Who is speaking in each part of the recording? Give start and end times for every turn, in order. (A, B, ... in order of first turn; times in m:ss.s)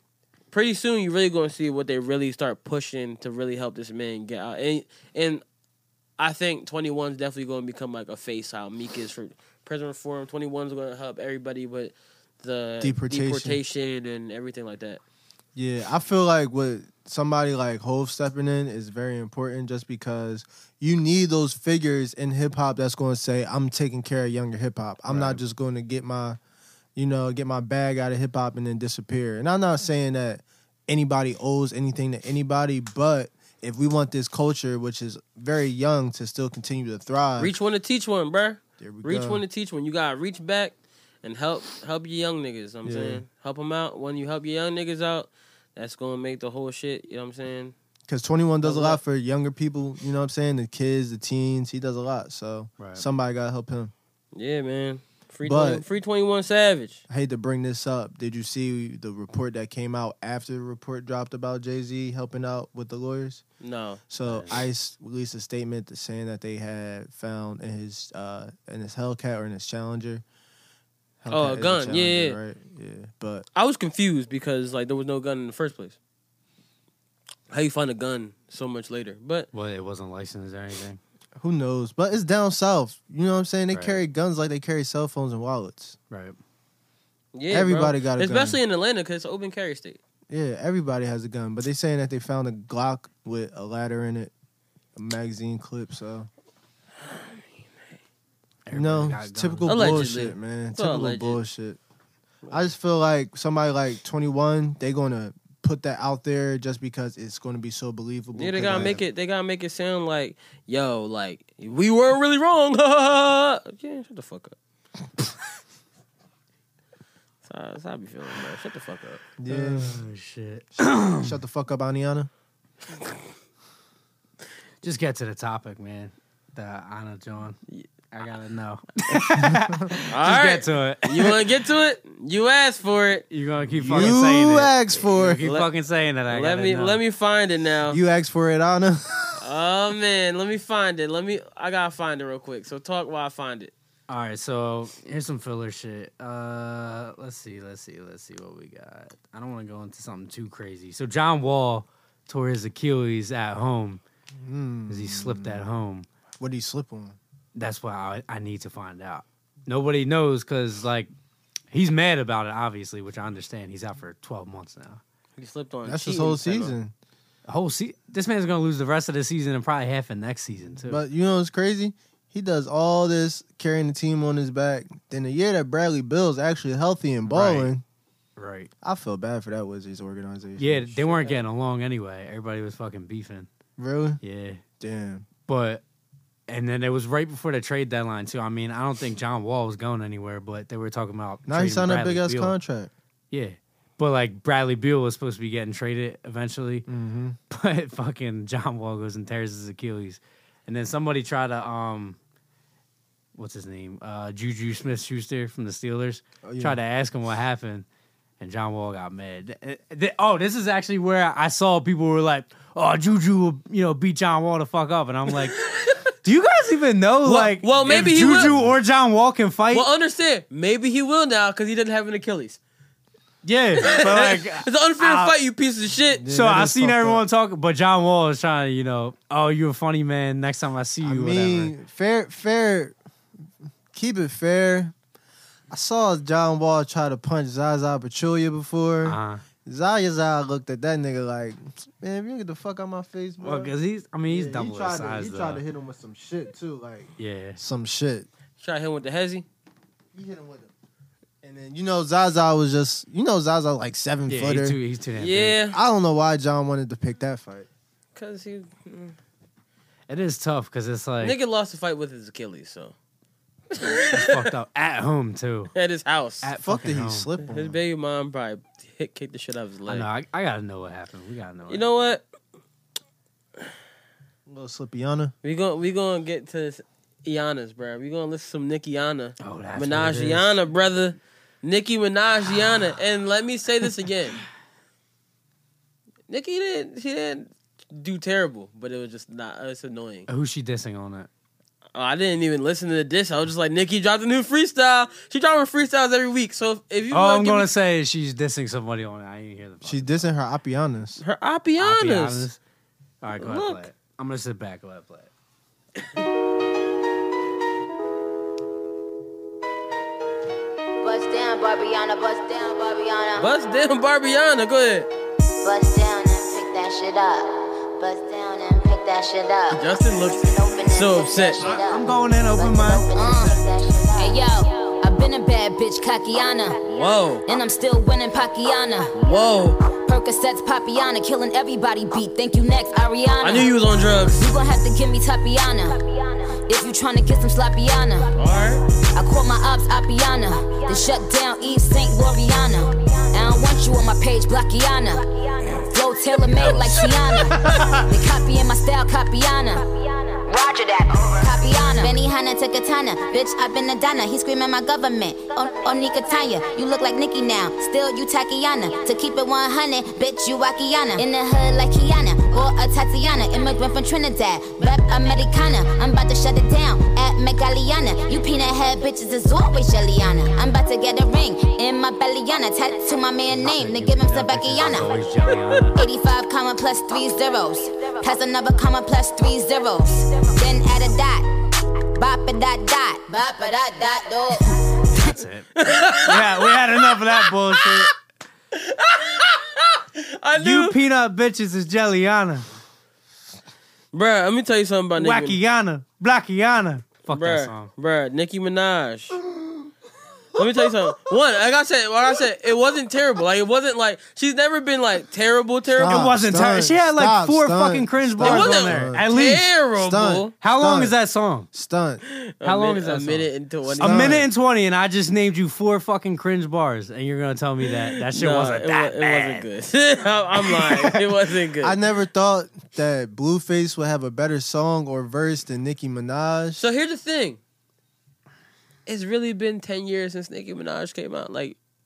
0:00.5-0:05.4 A
0:06.2-0:15.0 A
0:12.8-0:13.6 B
0:15.6-0:26.4 B
0:25.1-0:25.4 C
0:27.0-0:37.5 B
0:37.4-0:47.8 A
0:38.8-0:39.4 B
0:42.8-0:43.2 B
0:48.1-0:53.9 B
0:48.6-0:49.0 A
0:52.8-0:53.0 C
0:54.4-0:57.0 A
0:55.4-0:55.8 B
0:57.1-1:03.4 B
1:03.6-1:04.0 A
1:04.1-1:10.2 B
1:04.3-1:04.6 C
1:11.2-1:13.4 B
1:11.3-1:12.4 A
1:13.6-1:16.0 A
1:17.5-1:19.5 A
1:19.5-1:21.0 C
1:21.4-1:26.0 B
1:23.7-1:24.0 C
1:26.1-1:26.4 C
1:27.4-1:30.0 A
1:27.5-1:28.6 B
1:30.3-1:34.3 B
1:35.0-1:36.3 B
1:37.0-1:37.4 A
1:38.7-1:40.1 C
1:38.7-1:41.8 B
1:39.7-1:41.4 A
1:42.4-1:42.7 A
1:42.5-1:49.0 B
1:48.4-1:54.6 A
1:57.4-1:59.2 A
1:59.4-2:00.0 B
1:59.5-2:01.3 C
2:00.8-2:02.3 B
2:04.8-2:07.6 C
2:08.1-2:11.4 C
2:09.4-2:09.9 B
2:10.1-2:13.3 A
2:13.3-2:17.0 C
2:13.7-2:15.4 B
2:15.4-2:15.7 A
2:16.3-2:18.0 A
2:17.9-2:19.4 B
2:19.4-2:23.7 A
2:24.1-2:34.0 C
2:34.3-2:35.6 B
2:34.9-2:36.1 C
2:36.4-2:37.2 B
2:37.6-2:41.1 C
2:41.7-2:45.0 C
2:45.4-2:46.8 A
2:45.9-2:46.9 B
2:47.5-2:51.0 C
2:50.9-2:57.8 B
2:57.3-2:57.7 C
2:58.4-2:58.7 C
2:58.8-3:01.0 B
3:00.6-3:03.5 C
3:01.0-3:01.4 A
3:03.8-3:04.2 B
3:04.2-3:04.6 C
3:04.8-3:05.3 B
3:05.5-3:05.8 C
3:06.5-3:12.6 C
3:11.5-3:12.9 B
3:13.3-3:16.9 C
3:16.9-3:17.4 B
3:17.5-3:22.2 C
3:23.4-3:27.9 C
3:26.4-3:26.8 B
3:28.4-3:35.6 C
3:35.6-3:36.0 A
3:36.2-3:39.9 C
3:37.2-3:38.6 A
3:38.2-3:38.8 B
3:39.7-3:42.6 A
3:43.4-3:45.4 C
3:43.8-3:46.2 A
3:46.2-3:47.2 B
3:46.3-3:51.7 C
3:51.0-3:53.0 B
3:53.9-3:54.9 B
3:55.7-4:03.7 B
3:59.0-3:59.4 C
4:03.4-4:05.6 C
4:04.3-4:08.3 B
4:07.2-4:07.6 C
4:08.6-4:09.5 A
4:10.1-4:10.7 B
4:11.4-4:14.8 B
4:14.3-4:15.6 C
4:15.2-4:15.8 A
4:15.7-4:17.7 B
4:18.2-4:19.2 A
4:20.1-4:21.4 C
4:21.2-4:23.0 A
4:23.7-4:24.5 A
4:24.1-4:25.7 C
4:25.8-4:26.5 A
4:26.4-4:27.3 C
4:26.6-4:27.8 B
4:27.4-4:30.1 A
4:29.9-4:31.9 C
4:31.7-4:32.2 A
4:34.5-4:35.3 B
4:35.4-4:44.4 A
4:39.4-4:40.6 C
4:46.3-4:50.3 A
4:50.3-4:51.3 C
4:52.0-4:57.7 A
4:57.1-5:00.3 C
4:59.8-5:01.2 B
5:01.2-5:02.5 A
5:01.8-5:02.6 C
5:03.2-5:05.3 C
5:03.4-5:03.9 A
5:11.0-5:13.5 D
5:13.4-5:15.1 A
5:15.6-5:26.9 D
5:19.7-5:21.8 A
5:21.6-5:23.5 C
5:26.8-5:27.4 A
5:27.5-5:29.3 D
5:29.2-5:29.8 A
5:30.0-5:33.7 D
5:33.4-5:34.4 A
5:34.2-5:38.3 D
5:38.4-5:38.8 A
5:39.2-6:15.1 D
5:46.6-5:48.0 C
6:13.5-6:16.0 C
6:16.0-6:21.5 D
6:22.2-6:24.8 D
6:25.1-6:28.1 C
6:25.8-6:28.0 A
6:28.7-6:31.0 A
6:30.6-6:32.7 C
6:34.1-6:35.6 A
6:35.2-6:37.9 C
6:37.3-6:39.4 A
6:40.6-6:46.3 A
6:45.9-6:49.2 B
6:46.1-6:49.7 C
6:48.4-6:50.5 A
6:50.0-6:51.2 B
6:50.6-6:51.7 C
6:51.7-6:52.2 B
6:52.3-6:54.4 A
6:52.6-6:59.6 C
6:53.9-6:54.5 B
6:57.9-7:02.0 A
7:00.6-7:01.2 C
7:01.8-7:06.9 B
7:06.8-7:07.6 A
7:09.1-7:11.8 A